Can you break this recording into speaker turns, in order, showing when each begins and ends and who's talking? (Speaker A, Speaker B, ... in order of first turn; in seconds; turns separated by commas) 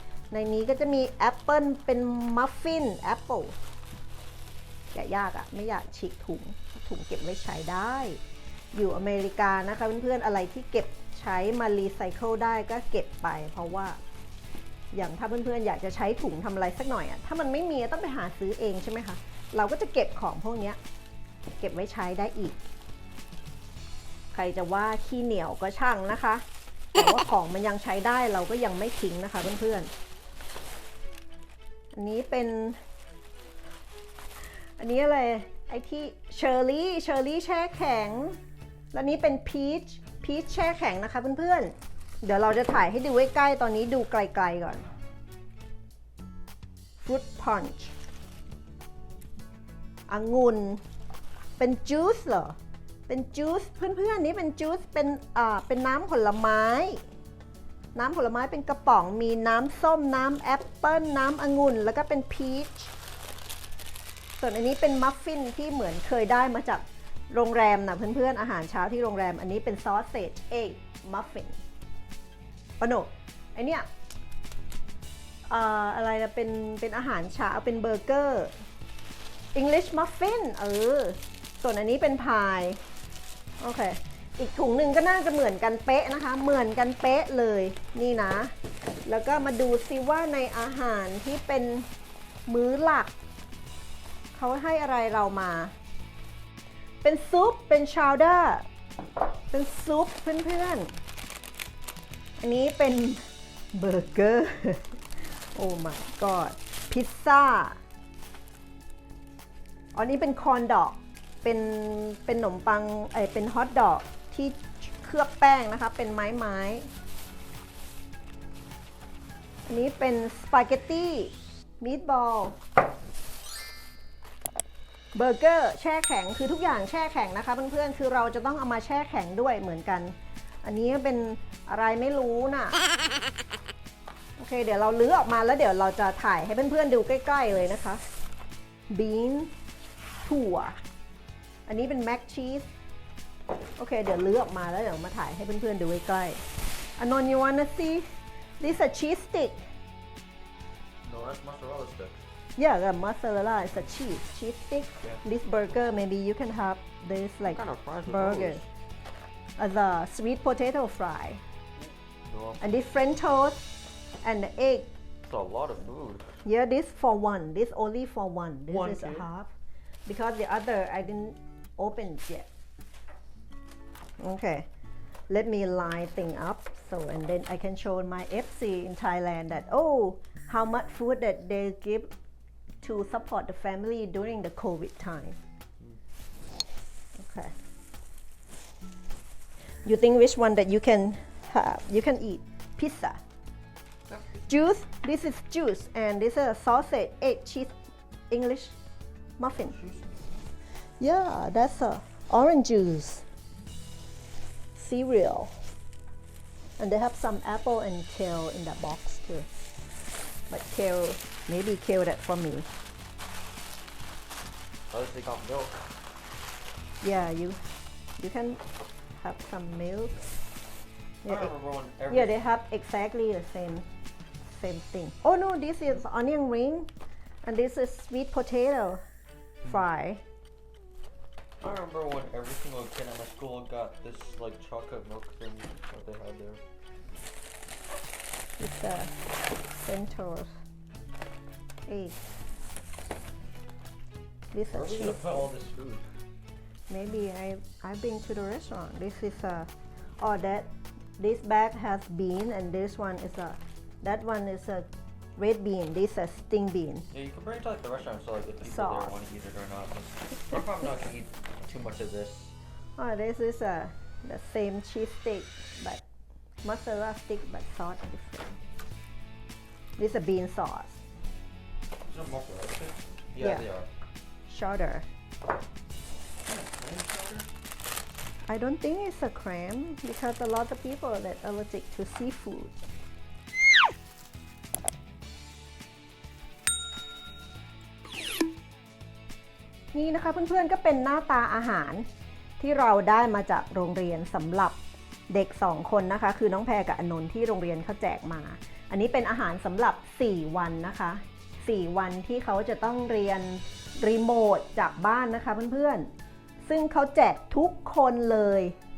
Speaker A: 0.3-3.5, Speaker A: 4.9-8.2, Speaker A: 8.7-14.0, Speaker A: 14.9-20.8, Speaker A: 21.6-22.6, Speaker A: 24.3-26.4, Speaker A: 26.9-29.9, Speaker A: 31.9-32.8, Speaker A: 34.8-38.4, Speaker A: 38.9-44.9, Speaker A: 47.0-47.9, Speaker A: 50.1-50.8, Speaker A: 51.6-52.6, Speaker A: 53.1-57.0, Speaker A: 58.0-62.9, Speaker A: 64.4-71.6, Speaker A: 72.8-73.9, Speaker A: 75.5-78.5, Speaker A: 79.5-82.8, Speaker A: 83.6-88.5, Speaker A: 89.1-91.9, Speaker A: 92.5-93.1, Speaker A: 94.3-95.7, Speaker A: 97.0-98.7, Speaker A: 99.5-100.9, Speaker A: 102.4-103.2, Speaker A: 103.7-104.9, Speaker A: 105.5-107.8, Speaker A: 110.0-116.9, Speaker A: 119.7-122.5, Speaker A: 125.2-132.8, Speaker A: 134.4-138.0, Speaker A: 138.9-139.5, Speaker A: 140.2-140.8, Speaker A: 141.7-142.7, Speaker A: 143.8-146.4, Speaker A: 147.0-148.1, Speaker A: 148.6-149.7, Speaker B: 151.0-152.2, Speaker A: 152.6-158.6, Speaker B: 157.5-158.7, Speaker A: 159.6-161.4, Speaker B: 162.3-162.6, Speaker A: 162.6-163.6, Speaker A: 164.2-164.9, Speaker B: 165.2-166.4, Speaker A: 166.4-169.5, Speaker B: 168.7-169.3, Speaker A: 170.1-172.5, Speaker A: 174.2-174.7, Speaker A: 175.3-182.1, Speaker A: 182.8-185.4, Speaker A: 187.2-187.5, Speaker A: 189.8-193.2, Speaker B: 194.1-194.4, Speaker A: 194.5-197.7, Speaker A: 198.3-198.8, Speaker A: 199.4-199.8, Speaker B: 199.6-200.3, Speaker A: 201.0-203.3, Speaker A: 204.8-205.5, Speaker A: 206.8-209.5, Speaker A: 210.5-212.7, Speaker B: 214.9-215.9, Speaker A: 217.0-217.6, Speaker A: 218.2-218.6, Speaker A: 219.2-220.3, Speaker A: 221.2-221.5, Speaker B: 221.2-222.4, Speaker A: 222.1-223.9, Speaker A: 224.4-226.9, Speaker A: 227.4-229.0, Speaker A: 229.7-230.2, Speaker B: 231.6-236.6, Speaker A: 238.6-239.2, Speaker A: 239.8-240.6, Speaker A: 241.9-242.2, Speaker A: 244.5-245.5, Speaker B: 244.7-246.1, Speaker A: 246.9-249.7, Speaker A: 250.2-250.7, Speaker A: 251.2-257.1, Speaker B: 257.1-262.6, Speaker A: 258.7-259.1, Speaker A: 263.0-266.0, Speaker A: 266.6-268.6, Speaker A: 270.0-271.0, Speaker B: 272.1-273.9, Speaker A: 273.4-273.6, Speaker A: 274.5-275.1, Speaker B: 276.4-277.5, Speaker A: 278.5-282.8, Speaker A: 289.9-292.1, Speaker A: 292.6-294.8, Speaker A: 295.3-306.1, Speaker A: 306.7-308.8